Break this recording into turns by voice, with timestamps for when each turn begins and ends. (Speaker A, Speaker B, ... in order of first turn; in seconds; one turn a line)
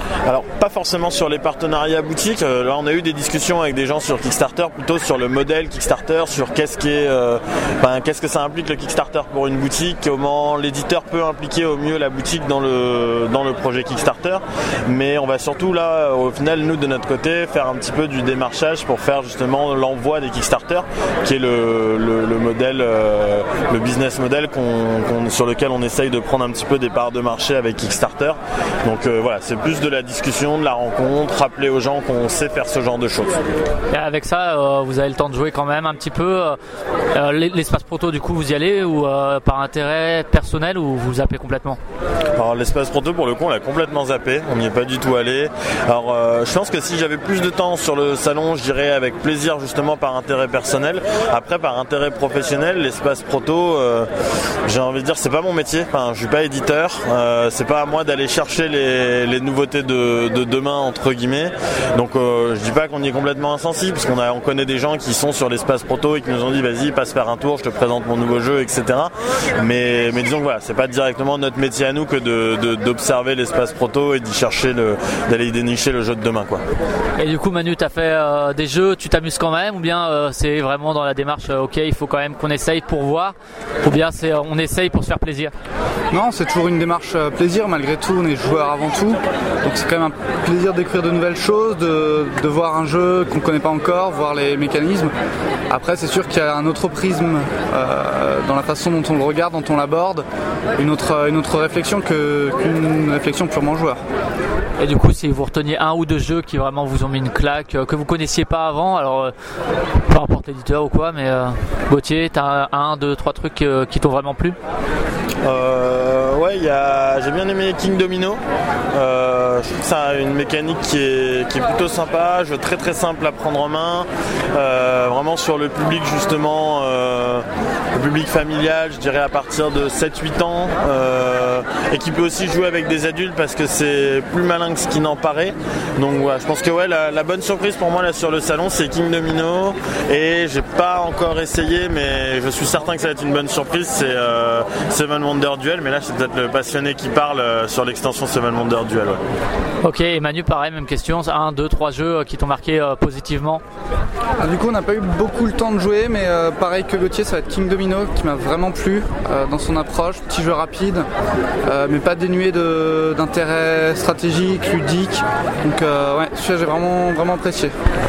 Speaker A: 0.2-33.4
Speaker B: 33.9-36.6
Speaker B: 37.1-41.8
Speaker A: 42.4-54.1
Speaker A: 54.7-76.6
Speaker B: 77.2-85.5
Speaker C: 86.1-95.1
Speaker C: 95.7-100.2
Speaker C: 100.8-104.0
Speaker B: 104.8-109.3
Speaker B: 110.0-114.6
Speaker A: 115.4-118.4
Speaker A: 118.9-149.2
Speaker B: 149.8-153.6
Speaker C: 154.4-161.1
Speaker C: 161.7-167.7